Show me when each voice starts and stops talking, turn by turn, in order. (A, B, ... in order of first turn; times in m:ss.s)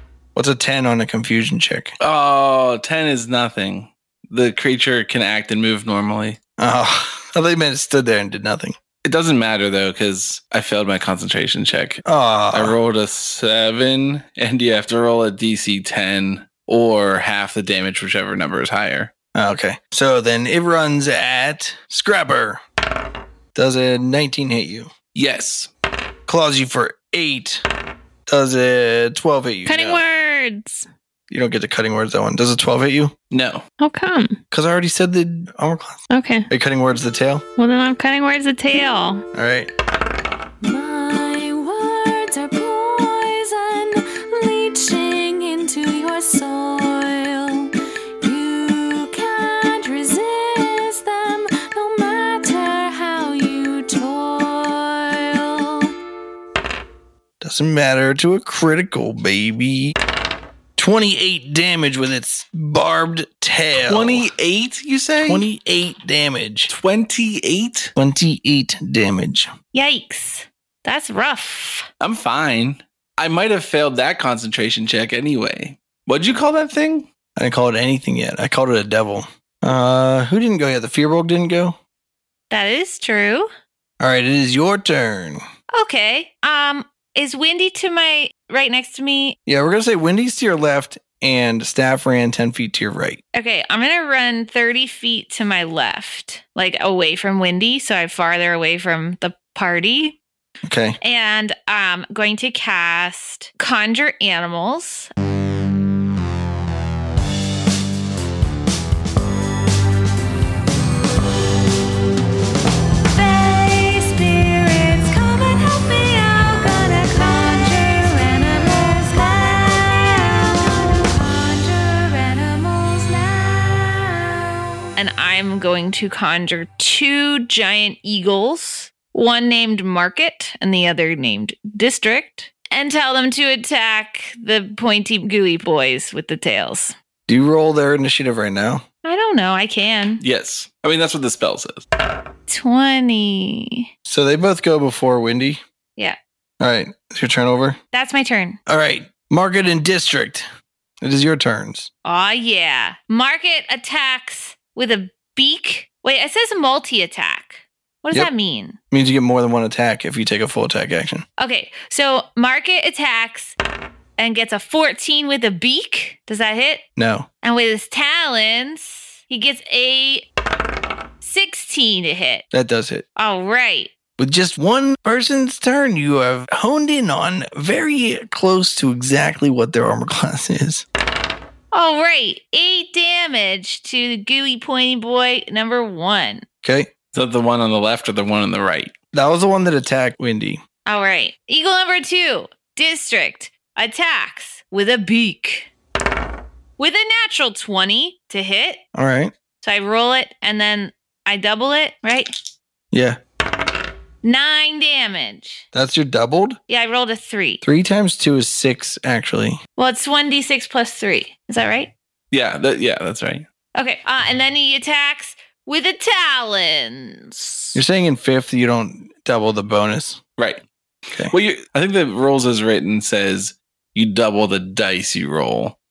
0:00.4-0:01.9 A
0:02.0-0:06.4 B
0:06.6-0:08.8 A
0:09.0-0:19.1 B
0:12.0-0:12.8 A
0:19.3-0:22.6 A
0:23.6-0:24.9 A
0:25.1-0:25.7 B
0:26.3-0:27.6 A
0:28.3-0:30.0 A
0:29.6-0:30.9 C
0:31.3-0:33.1 A
0:33.3-0:33.6 B
0:33.8-0:34.4 C
0:34.5-0:37.4 A
0:36.1-0:36.5 C
0:37.6-0:39.2 C
0:39.3-0:39.7 A
0:40.6-0:47.7 D
0:48.2-0:55.9 D
0:57.4-1:00.0 A
1:00.8-1:04.3 A
1:03.9-1:05.5 B
1:05.2-1:06.7 A
1:06.7-1:07.9 B
1:08.0-1:09.5 A
1:09.7-1:11.9 E
1:12.0-1:17.1 B
1:17.4-1:21.8 A
1:22.5-1:23.5 E
1:24.0-1:25.4 A
1:25.7-1:29.4 E
1:29.5-1:33.2 A
1:33.3-1:40.2 E
1:40.6-1:41.0 A
1:41.0-1:45.1 E
1:53.1-2:04.9 D
2:05.0-2:17.0 E
2:17.3-2:18.8 A
2:19.0-2:20.2 E
2:20.2-2:21.8 B
2:22.5-2:23.9 E
2:24.0-2:25.6 A
2:26.6-2:27.8 A
2:27.9-2:28.6 E
2:28.6-2:30.5 A
2:31.0-2:31.9 A
2:32.0-2:38.8 E
2:38.9-2:41.2 A
2:41.4-2:43.6 E
2:44.2-2:46.9 E
2:47.0-2:47.3 A
2:47.4-2:50.3 E
2:51.2-2:52.5 E
2:52.5-2:53.0 A
2:53.2-2:53.9 E
2:54.2-3:00.9 A
3:01.7-3:06.5 E
3:06.6-3:06.9 A
3:07.1-3:08.9 B
3:09.1-3:10.6 A
3:10.8-3:15.7 E
3:16.8-3:18.8 E
3:18.9-3:19.3 A
3:19.6-3:22.3 E
3:22.9-3:23.2 A
3:24.2-3:25.6 E
3:25.7-3:26.6 A
3:26.7-3:27.6 E
3:27.6-3:29.6 A
3:29.8-3:31.9 E
3:32.3-3:33.4 B
3:33.8-3:37.8 E
3:37.8-3:40.2 A
3:40.4-3:40.6 B
3:41.3-3:45.8 B